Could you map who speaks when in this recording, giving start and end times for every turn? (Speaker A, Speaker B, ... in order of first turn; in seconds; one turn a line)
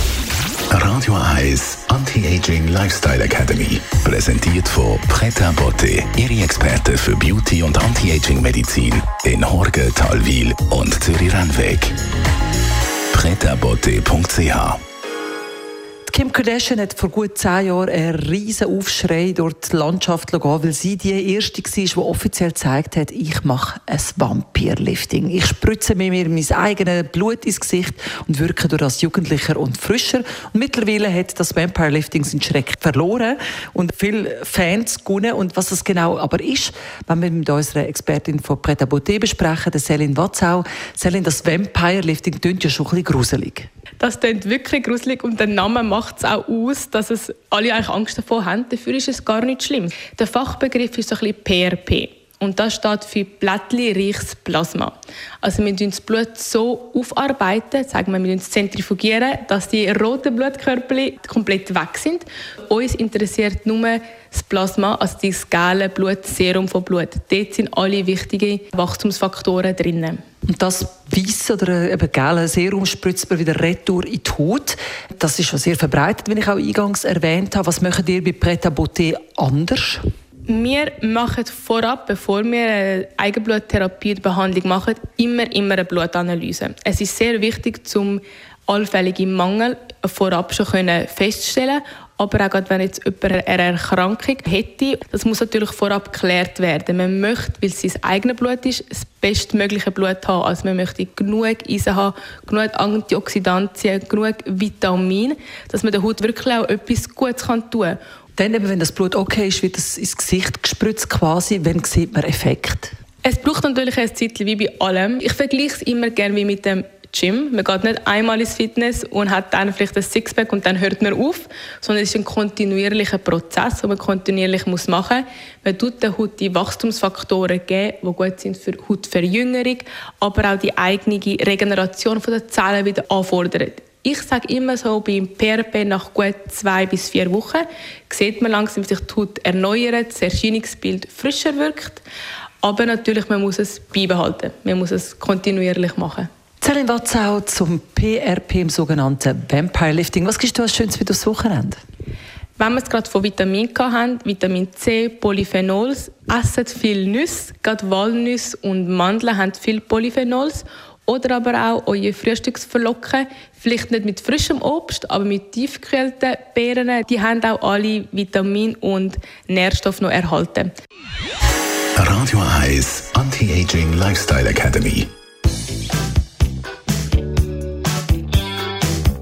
Speaker A: 0.7-11.9
Speaker A: 13.1-14.8
Speaker B: 16.1-43.7
Speaker C: 44.0-70.2
Speaker B: 70.5-80.0
Speaker C: 80.5-108.0
Speaker B: 108.4-112.9
Speaker C: 113.2-142.0
Speaker C: 142.6-146.3
Speaker B: 146.6-151.8
Speaker C: 152.6-170.7
Speaker A: 171.9-175.1